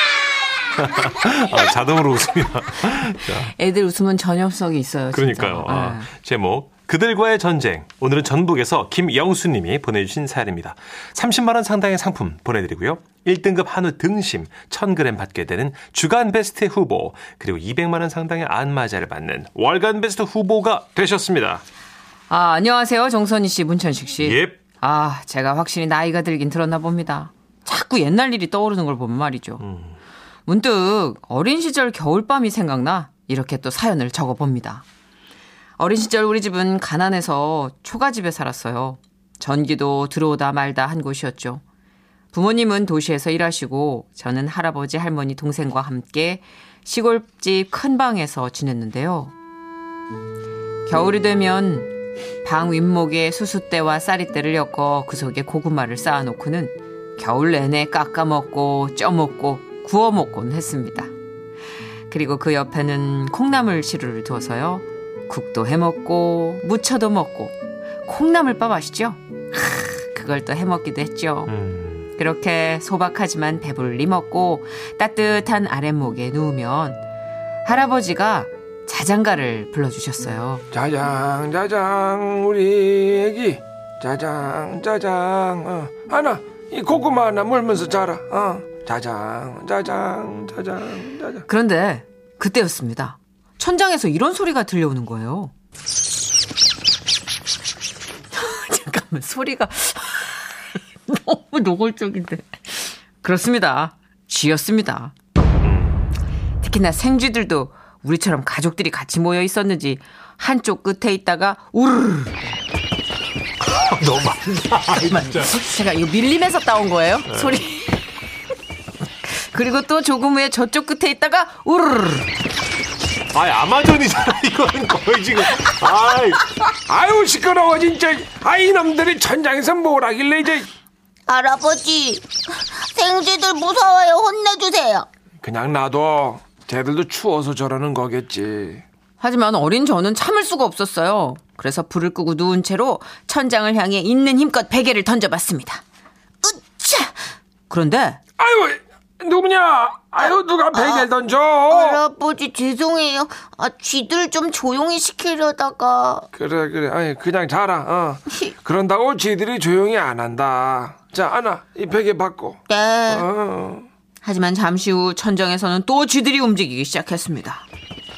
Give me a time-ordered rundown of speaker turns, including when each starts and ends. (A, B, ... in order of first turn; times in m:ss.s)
0:00.8-0:03.5 A
0:03.4-0:06.1 B
0:05.1-0:21.6 A
0:22.3-0:29.6 B
0:24.2-0:24.6 A
0:29.6-0:30.0 A
0:30.5-0:34.8 B
0:35.8-0:41.6 B
0:42.3-0:49.3 B
0:50.9-1:01.1 B
1:02.1-1:11.5 B
1:11.5-1:12.1 A
1:12.2-1:17.0 B
1:17.6-1:20.6 B
1:20.7-1:31.5 C
1:31.5-1:35.5 B
1:38.3-1:45.1 B
1:45.6-1:46.1 A
1:46.6-1:52.4 B
1:53.8-1:55.6 A
1:55.1-1:58.1 B
1:57.3-1:57.6 A
1:59.2-2:02.3 B
2:03.3-2:06.6 A
2:06.9-2:10.7 C
2:11.3-2:15.1 D
2:15.4-2:18.8 C
2:19.2-2:25.8 B
2:26.4-2:27.1 D
2:27.7-2:28.2 B
2:28.4-2:32.0 C
2:30.2-2:31.1 D
2:31.7-2:36.3 D
2:36.4-2:43.9 C
2:42.7-2:43.3 D
2:44.2-2:47.7 B